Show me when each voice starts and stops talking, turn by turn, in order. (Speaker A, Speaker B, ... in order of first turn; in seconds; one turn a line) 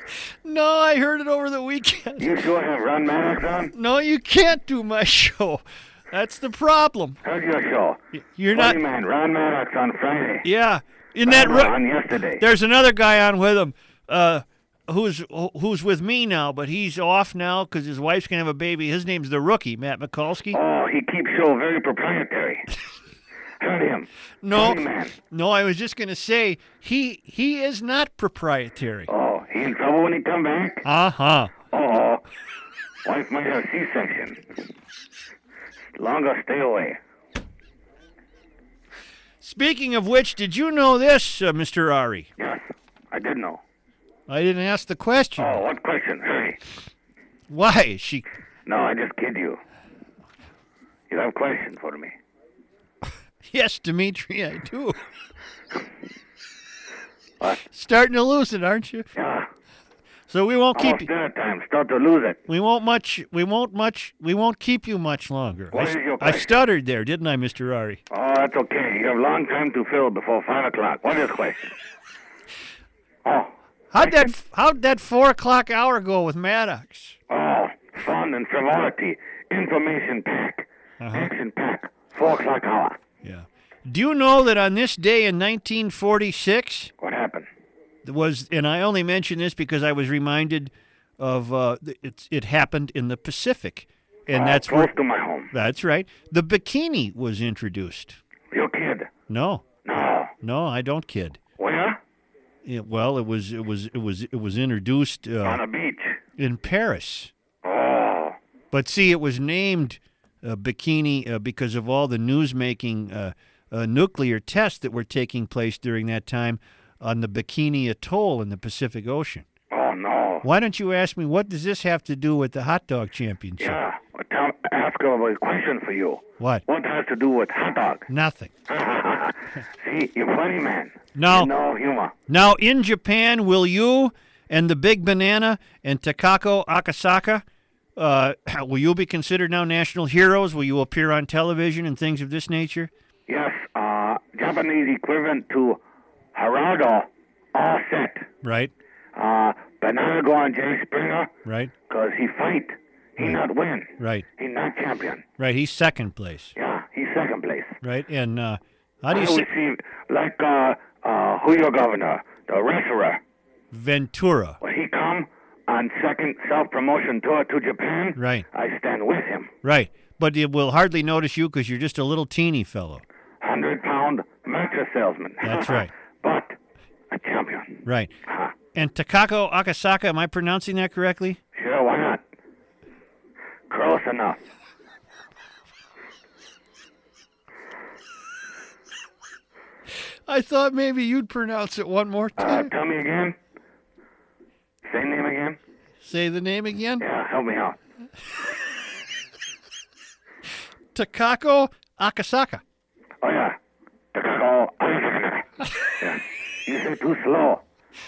Speaker A: 0.4-2.3
Speaker B: 2.2-3.7
Speaker A: 3.7-7.2
Speaker B: 7.2-8.0
Speaker A: 8.2-8.8
Speaker B: 8.5-10.4
Speaker A: 10.4-11.8
Speaker B: 11.2-12.4
Speaker A: 12.4-20.6
Speaker B: 20.5-22.6
Speaker B: 23.6-25.1
Speaker A: 24.4-29.1
Speaker B: 29.1-30.8
Speaker A: 30.8-31.6
Speaker B: 31.7-32.2
Speaker B: 33.0-34.4
Speaker B: 36.0-37.0
Speaker A: 39.4-42.3
Speaker B: 42.4-43.6
Speaker A: 44.3-45.6
Speaker B: 45.4-46.6
Speaker A: 47.5-48.2
Speaker B: 48.6-49.6
Speaker B: 51.1-52.1
Speaker A: 53.5-55.0
Speaker A: 57.7-59.1
Speaker B: 59.1-59.5
Speaker A: 60.3-61.1
Speaker B: 60.7-62.4
Speaker A: 62.5-68.0
Speaker B: 65.7-66.5
Speaker B: 68.1-71.7
Speaker B: 73.2-74.2
Speaker A: 73.9-77.2
Speaker B: 77.3-83.0
Speaker A: 81.0-81.3
Speaker A: 83.2-86.9
Speaker B: 87.0-87.5
Speaker A: 88.0-94.9
Speaker B: 94.3-95.5
Speaker A: 95.5-98.2
Speaker B: 98.5-99.1
Speaker A: 99.3-99.6
Speaker B: 99.8-100.3
Speaker A: 100.4-101.4
Speaker B: 101.6-102.0
Speaker A: 102.6-105.6
Speaker B: 105.4-106.2
Speaker A: 106.4-107.3
Speaker B: 107.6-108.4
Speaker A: 108.7-119.4
Speaker B: 119.7-120.4
Speaker A: 120.4-123.8
Speaker B: 123.6-128.0
Speaker A: 126.4-126.6
Speaker A: 128.1-128.5
Speaker B: 128.7-132.1
Speaker A: 131.1-131.5
Speaker A: 132.3-137.4
Speaker A: 138.0-142.9
Speaker B: 143.3-145.8
Speaker B: 146.3-148.3
Speaker A: 148.4-148.7
Speaker B: 149.2-151.3
Speaker A: 151.4-151.7
Speaker B: 151.9-155.2
Speaker A: 154.0-154.2
Speaker A: 155.4-156.5
Speaker B: 156.6-157.7
Speaker A: 157.8-159.5
Speaker B: 159.1-163.2
Speaker A: 163.7-164.6
Speaker B: 164.6-169.5
Speaker A: 168.2-168.4
Speaker A: 169.6-173.0
Speaker B: 173.4-176.5
Speaker A: 175.4-175.9
Speaker B: 177.1-178.5
Speaker A: 177.9-178.1
Speaker A: 178.7-181.4
Speaker B: 181.6-182.2
Speaker B: 183.7-184.4
Speaker A: 190.3-192.7
Speaker B: 192.4-193.3
Speaker B: 194.9-195.6
Speaker A: 196.0-197.0
Speaker B: 197.0-197.8
Speaker A: 200.9-202.6
Speaker B: 203.2-203.6
Speaker B: 204.1-205.4
Speaker B: 206.0-207.6